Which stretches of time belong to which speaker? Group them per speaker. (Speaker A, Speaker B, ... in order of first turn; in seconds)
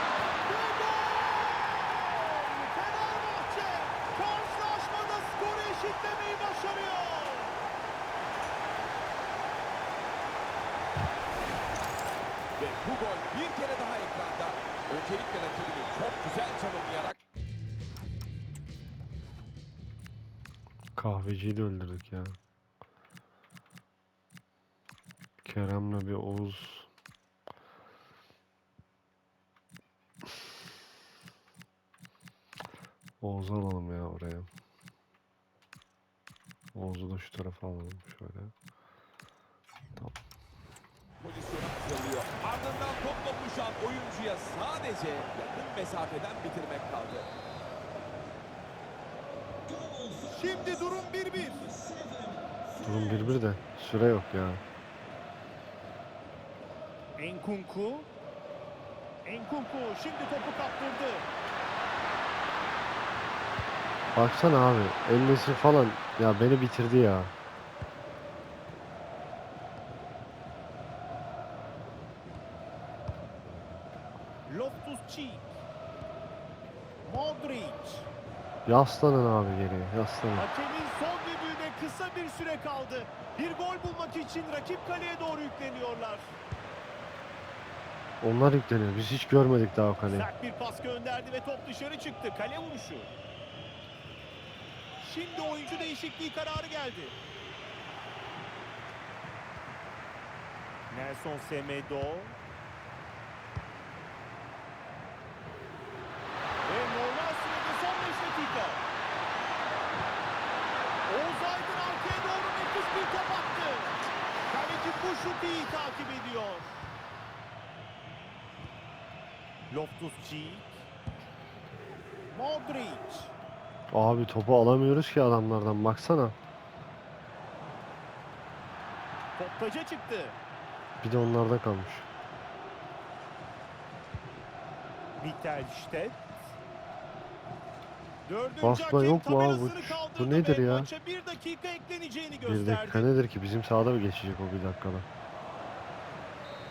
Speaker A: 0.4-7.5, 50.2-51.7, 57.2-58.1, 59.2-61.3, 74.5-75.5, 77.0-78.1, 80.3-86.4, 90.1-93.1, 95.0-97.2, 100.9-102.4, 106.6-108.8, 111.1-116.8, 119.7-120.8, 122.3-123.3, 129.4-130.4, 135.2-136.3, 138.2-143.1
Speaker B: 12.6-17.2, 41.2-47.3
Speaker C: 20.9-22.4, 25.4-26.9, 33.2-34.5, 36.7-38.5, 52.8-54.6, 64.1-67.3, 78.7-80.5, 88.2-90.3, 123.9-126.3, 131.0-132.1, 138.6-140.9, 142.4-145.1